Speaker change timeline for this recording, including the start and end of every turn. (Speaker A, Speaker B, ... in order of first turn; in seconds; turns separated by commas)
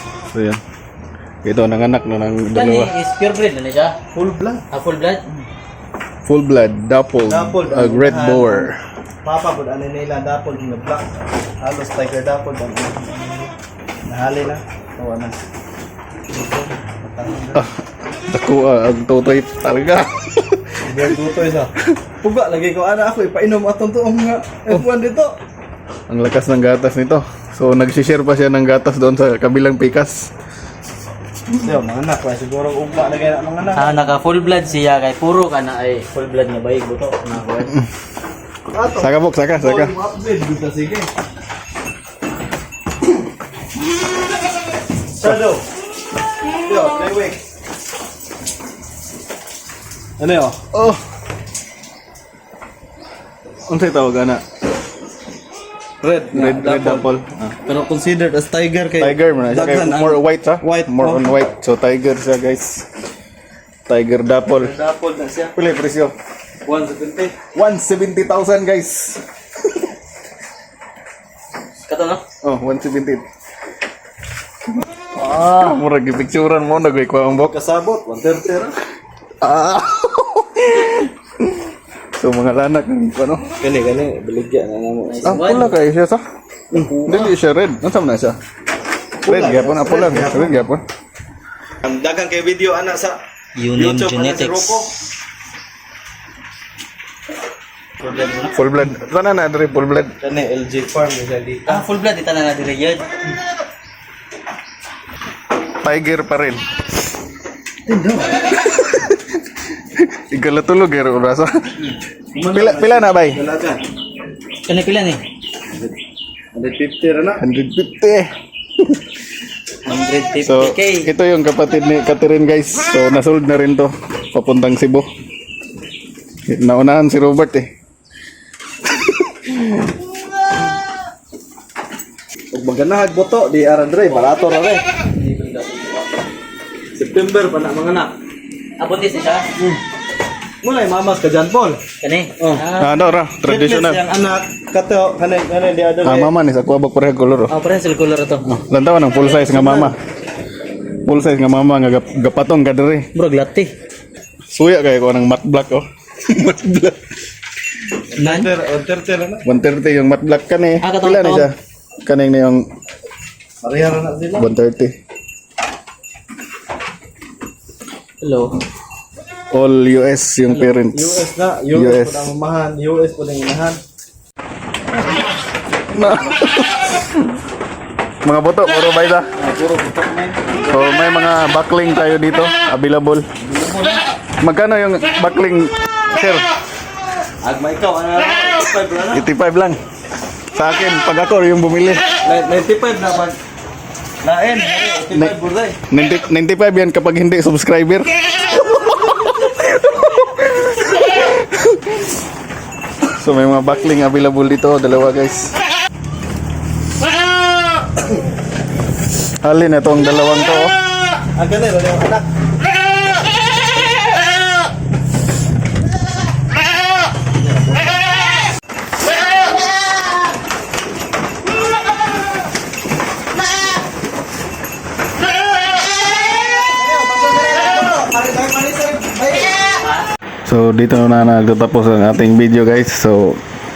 Speaker A: 0.3-0.6, Speaker A: 1.4-2.9, Speaker B: 2.5-3.9, Speaker C: 4.1-4.6, Speaker B: 4.7-5.2, Speaker A: 6.2-8.8, Speaker C: 7.2-8.7, Speaker C: 9.2-11.0, Speaker C: 11.6-13.5, Speaker C: 14.1-15.4, Speaker C: 16.3-17.6, Speaker A: 18.3-21.1, Speaker C: 20.8-21.7, Speaker C: 22.2-25.3, Speaker A: 26.1-30.3, Speaker C: 31.6-34.0, Speaker B: 33.7-37.7, Speaker C: 38.7-41.1, Speaker A: 39.0-39.9, Speaker C: 45.2-45.6, Speaker C: 46.6-47.4, Speaker C: 50.2-50.6, Speaker A: 50.7-51.0, Speaker A: 53.7-54.4, Speaker C: 56.0-57.1, Speaker A: 56.3-57.5, Speaker C: 57.6-61.3, Speaker A: 59.0-62.9, Speaker A: 63.9-64.7, Speaker C: 64.5-65.5, Speaker A: 65.5-66.1, Speaker C: 66.6-67.3, Speaker A: 67.5-69.2, Speaker B: 71.9-72.2, Speaker A: 72.4-73.2, Speaker A: 75.2-77.5, Speaker C: 77.4-78.7, Speaker A: 79.4-81.4, Speaker A: 82.1-83.5, Speaker C: 83.6-85.4, Speaker B: 85.1-85.8, Speaker A: 85.2-86.2, Speaker C: 86.7-87.0, Speaker B: 86.8-87.3, Speaker A: 87.0-88.4, Speaker C: 89.2-90.7, Speaker A: 89.2-90.8, Speaker C: 91.8-93.2, Speaker B: 93.6-94.8, Speaker C: 93.7-94.9, Speaker B: 98.0-98.6, Speaker A: 98.5-100.1, Speaker C: 100.2-101.8, Speaker B: 101.7-103.2, Speaker A: 105.8-106.6, Speaker C: 107.9-108.3, Speaker A: 108.6-109.2, Speaker A: 110.0-111.6, Speaker C: 112.3-113.8, Speaker A: 112.5-113.4, Speaker B: 114.7-115.2, Speaker C: 116.5-117.4, Speaker A: 117.4-118.2, Speaker B: 119.8-121.1, Speaker A: 120.4-125.1, Speaker A: 126.5-127.7, Speaker A: 129.3-129.7, Speaker C: 132.5-134.8, Speaker B: 135.2-136.0, Speaker C: 136.9-138.1, Speaker B: 138.8-139.5, Speaker C: 140.6-141.8, Speaker B: 142.0-143.0, Speaker C: 142.4-142.7, Speaker A: 142.8-144.0, Speaker C: 143.4-146.3, Speaker A: 146.0-147.5, Speaker B: 147.5-148.5, Speaker A: 148.4-150.0, Speaker C: 149.3-149.9, Speaker A: 151.0-153.1, Speaker B: 153.1-153.7, Speaker A: 154.5-157.0, Speaker C: 158.1-159.4, Speaker B: 158.1-158.5, Speaker A: 159.4-162.7, Speaker B: 160.8-161.5, Speaker C: 163.6-164.5, Speaker A: 164.4-164.9, Speaker B: 168.2-168.5, Speaker A: 169.5-171.2, Speaker B: 170.5-170.7, Speaker C: 170.9-173.8, Speaker A: 171.7-172.3, Speaker A: 175.9-177.1, Speaker A: 178.2-179.3, Speaker C: 179.4-180.6, Speaker A: 180.6-183.2, Speaker C: 183.4-184.0, Speaker A: 184.4-186.5, Speaker C: 187.4-189.2, Speaker A: 189.1-189.8, Speaker A: 190.5-192.0, Speaker C: 192.2-193.4, Speaker C: 194.2-195.8, Speaker A: 195.9-198.1, Speaker A: 199.8-201.8, Speaker A: 203.2-205.5, Speaker A: 209.4-210.7, Speaker C: 211.3-212.2, Speaker C: 226.6-229.8, Speaker A: 230.4-233.4